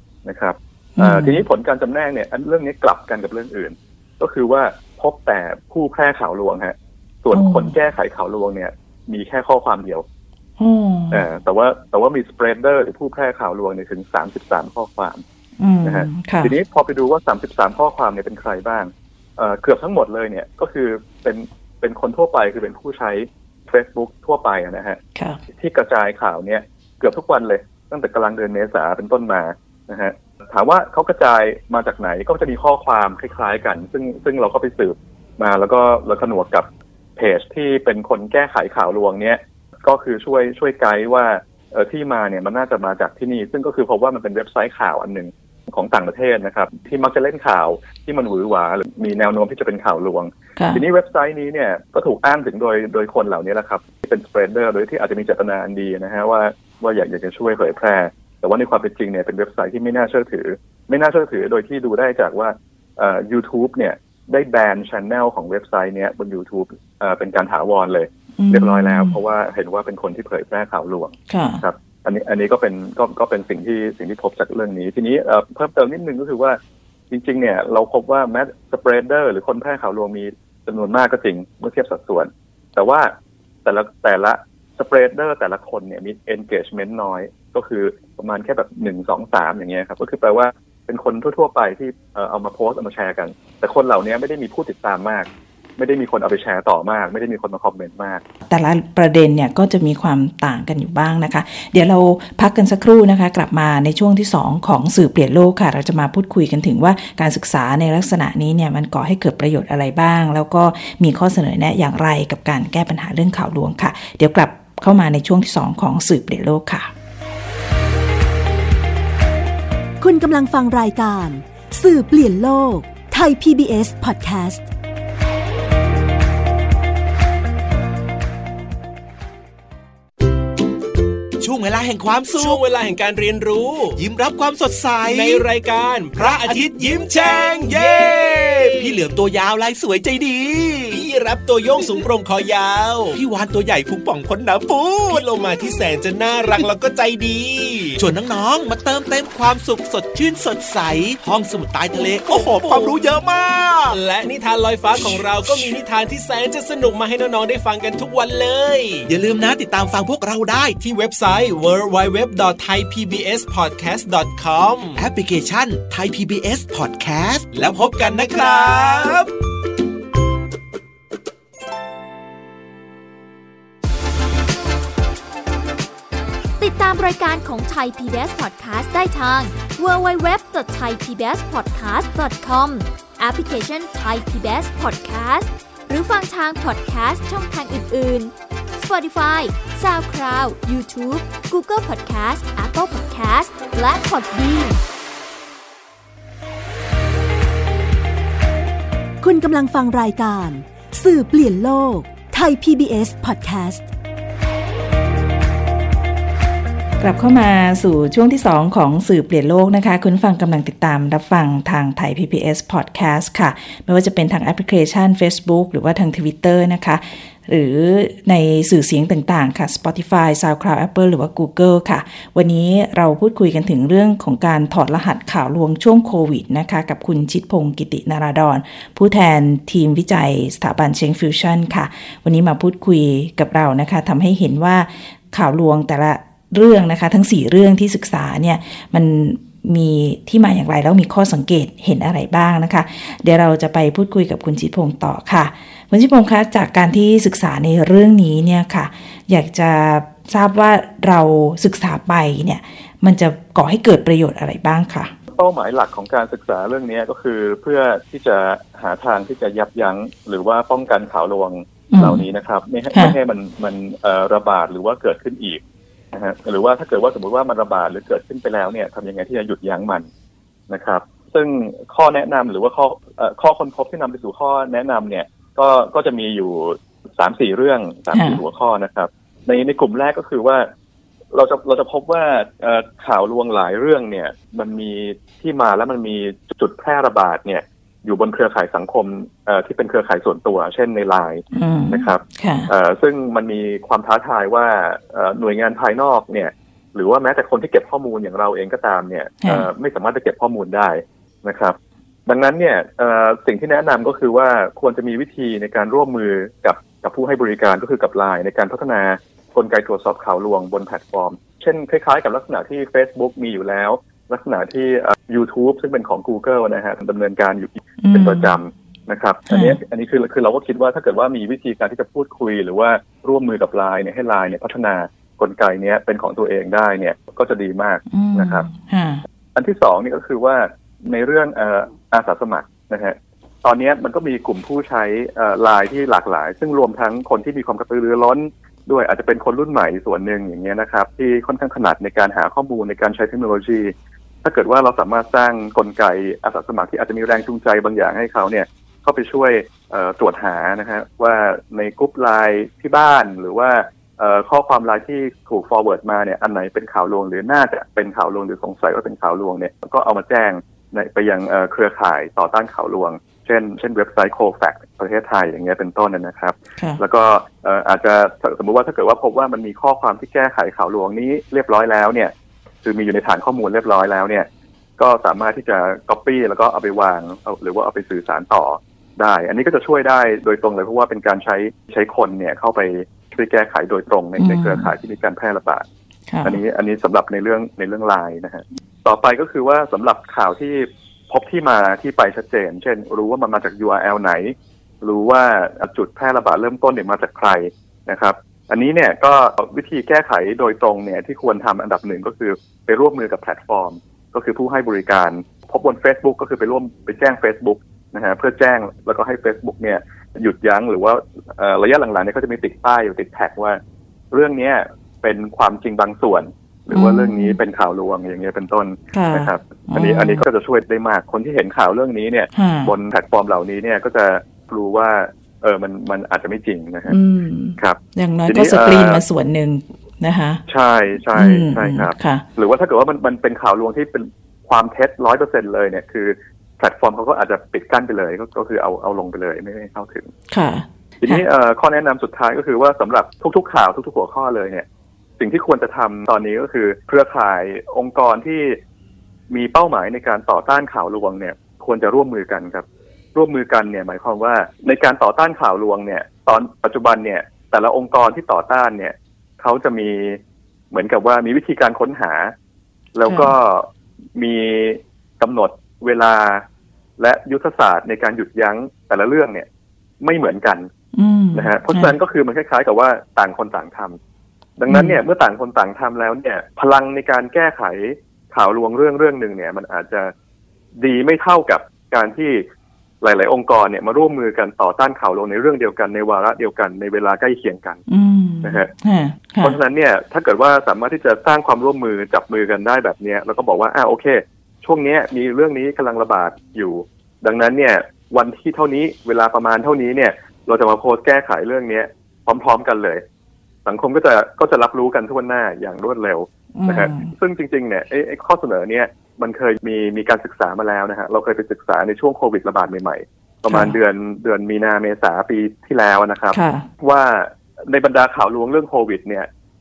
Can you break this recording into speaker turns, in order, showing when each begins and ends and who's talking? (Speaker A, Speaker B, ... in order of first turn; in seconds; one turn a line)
Speaker A: 0.2-10.0
Speaker B: 0.9-1.4
Speaker B: 7.3-7.7
Speaker B: 10.6-11.2
Speaker A: 11.1-15.2
Speaker B: 15.6-16.5
Speaker A: 15.8-25.0
Speaker A: 25.5-76.6
Speaker B: 50.6-50.8
Speaker B: 68.4-69.1
Speaker B: 71.3-71.6
Speaker A: 77.1-83.1
Speaker A: 83.6-98.2
Speaker B: 98.5-116.9
Speaker C: 120.0-124.6
Speaker D: 131.4-132.6
Speaker E: 132.3-134.0
Speaker D: 133.9-135.5
Speaker E: 135.1-139.0
Speaker D: 136.1-141.0
Speaker E: 140.9-143.2
Speaker D: 143.1-145.3
Speaker E: 145.1-148.0
Speaker D: 146.4-147.2
Speaker D: 147.9-154.0
Speaker E: 152.2-153.0
Speaker E: 153.9-159.1
Speaker D: 159.1-160.8
Speaker E: 160.8-165.0
Speaker D: 164.9-169.2
Speaker E: 167.5-169.3
Speaker F: 176.6-194.8
Speaker C: 199.2-203.8
Speaker B: 207.0-255.1
Speaker A: 255.3-265.6
Speaker B: 261.9-262.2
Speaker A: 266.1-270.1
Speaker A: 270.7-280.7
Speaker B: 278.1-278.4
Speaker A: 281.3-301.8
Speaker B: 291.5-292.7
Speaker B: 299.4-299.7
Speaker A: 302.3-328.6
Speaker B: 318.0-318.6
Speaker B: 319.5-319.8
Speaker B: 328.1-329.2
Speaker A: 329.5-343.9
Speaker A: 344.4-372.3
Speaker A: 372.8-374.5
Speaker A: 375.0-385.8
Speaker B: 384.4-384.9
Speaker B: 386.3-386.6
Speaker A: 386.4-413.8
Speaker A: 414.3-427.2
Speaker B: 416.9-417.6
Speaker B: 419.1-420.4
Speaker B: 422.5-422.9
Speaker B: 427.1-430.6
Speaker A: 427.8-429.2
Speaker A: 430.7-440.3
Speaker B: 431.3-432.4
Speaker B: 440.5-441.4
Speaker A: 441.2-444.8
Speaker A: 445.4-448.8
Speaker A: 449.5-460.4
Speaker A: 460.9-462.5
Speaker A: 463.1-466.6
Speaker B: 463.2-463.5
Speaker A: 467.2-469.7
Speaker A: 470.2-470.9
Speaker B: 471.1-472.1
Speaker A: 471.5-474.2
Speaker A: 474.8-480.3
Speaker B: 474.9-475.2
Speaker A: 481.0-482.6
Speaker A: 483.2-488.0
Speaker B: 488.1-489.8
Speaker A: 488.6-488.9
Speaker A: 489.6-503.2
Speaker A: 503.8-519.5
Speaker B: 506.7-507.3
Speaker B: 513.7-514.0
Speaker B: 516.5-516.9